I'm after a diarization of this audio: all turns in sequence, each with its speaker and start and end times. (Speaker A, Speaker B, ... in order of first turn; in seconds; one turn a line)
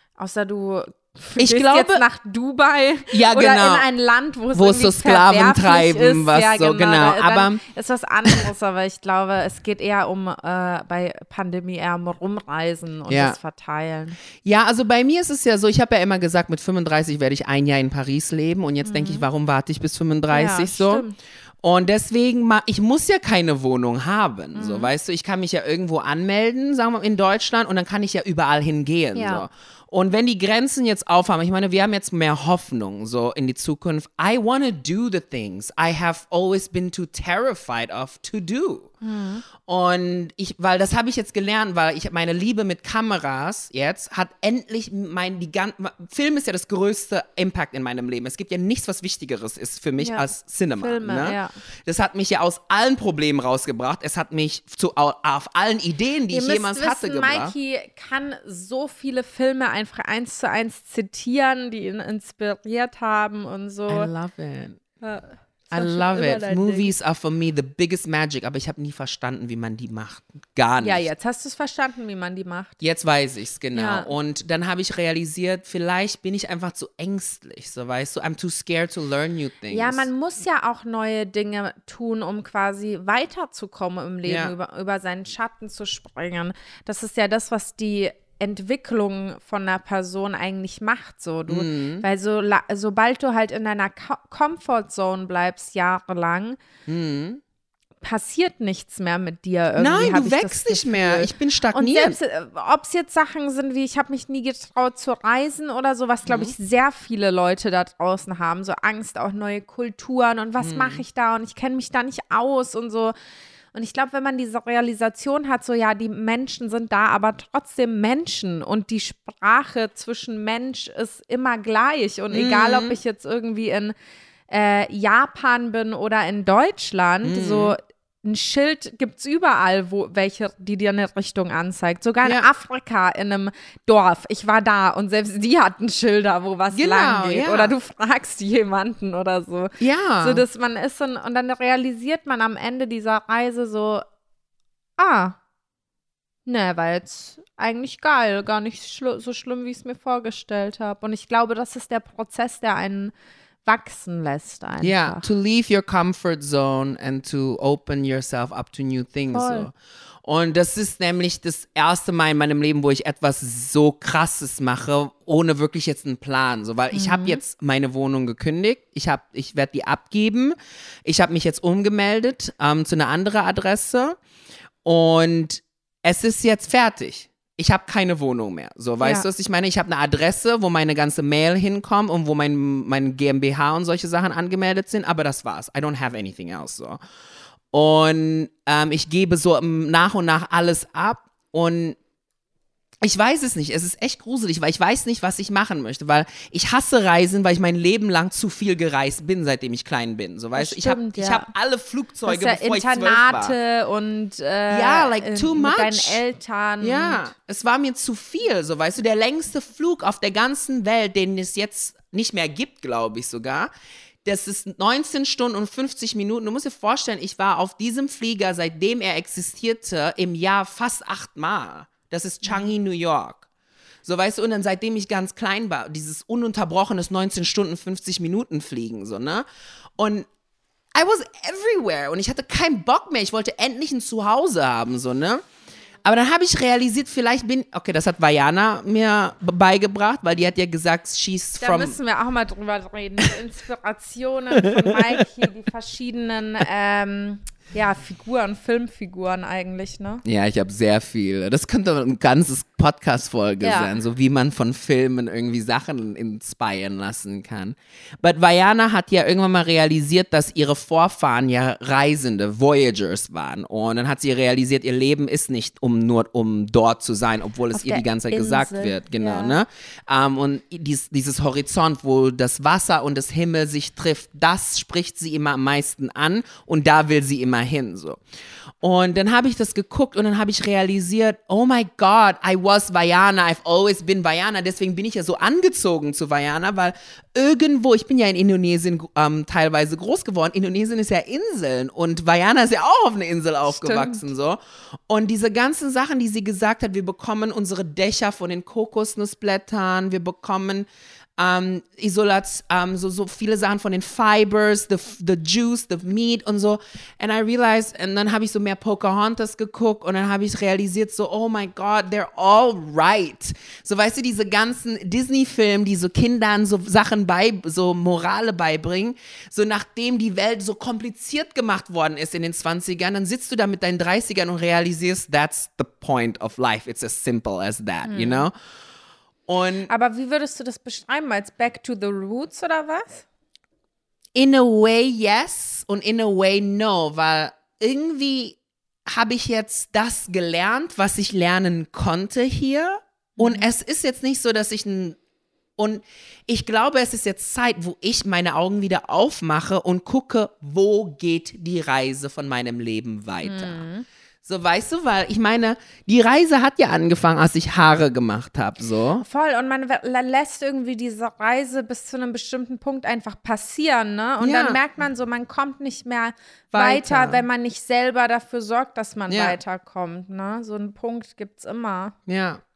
Speaker A: 0.2-14.2
Speaker B: 1.4-2.0
Speaker B: 3.1-3.9
Speaker B: 4.5-7.6
Speaker B: 13.1-13.4
Speaker B: 14.4-21.0
Speaker A: 18.8-19.3
Speaker A: 20.3-21.2
Speaker B: 21.6-38.9
Speaker A: 24.5-24.9
Speaker A: 29.1-29.4
Speaker A: 39.0-39.4
Speaker B: 39.6-57.5
Speaker A: 50.0-51.5
Speaker A: 56.3-64.1
Speaker B: 63.9-64.8
Speaker A: 65.0-66.9
Speaker B: 65.7-71.0
Speaker A: 70.8-72.8
Speaker B: 72.8-80.1
Speaker A: 73.7-74.1
Speaker A: 79.7-96.6
Speaker B: 84.2-84.5
Speaker B: 91.5-92.0
Speaker B: 96.9-97.4
Speaker A: 98.0-113.1
Speaker B: 99.8-102.2
Speaker B: 106.2-106.5
Speaker B: 110.6-111.0
Speaker A: 113.7-123.9
Speaker B: 122.3-123.0
Speaker A: 124.5-144.0
Speaker B: 127.2-127.7
Speaker B: 136.7-137.7
Speaker B: 139.8-140.4
Speaker A: 145.0-145.3
Speaker A: 146.4-153.1
Speaker A: 153.6-155.2
Speaker B: 154.8-159.7
Speaker A: 159.3-159.7
Speaker B: 160.2-174.2
Speaker A: 166.9-167.4
Speaker B: 174.8-187.0
Speaker B: 187.7-192.0
Speaker B: 193.0-203.5
Speaker A: 200.5-201.5
Speaker A: 202.2-207.3
Speaker B: 204.7-206.2
Speaker B: 206.8-213.7
Speaker B: 214.2-223.4
Speaker A: 222.4-222.7
Speaker B: 224.0-229.4
Speaker B: 230.0-230.3
Speaker B: 230.9-235.4
Speaker B: 236.0-242.0
Speaker A: 241.6-250.2
Speaker B: 244.6-245.2
Speaker B: 250.2-278.2
Speaker A: 253.6-253.9
Speaker A: 267.7-269.6
Speaker B: 278.8-294.6
Speaker A: 293.7-294.2
Speaker B: 295.1-328.5
Speaker A: 328.1-328.5
Speaker B: 329.5-329.9
Speaker A: 329.9-333.2
Speaker B: 334.3-345.2
Speaker A: 343.4-343.7
Speaker B: 345.8-353.8
Speaker A: 353.4-354.1
Speaker B: 354.4-359.2
Speaker A: 359.2-372.1
Speaker B: 364.4-364.8
Speaker B: 366.7-367.4
Speaker B: 369.3-369.6
Speaker B: 372.3-372.6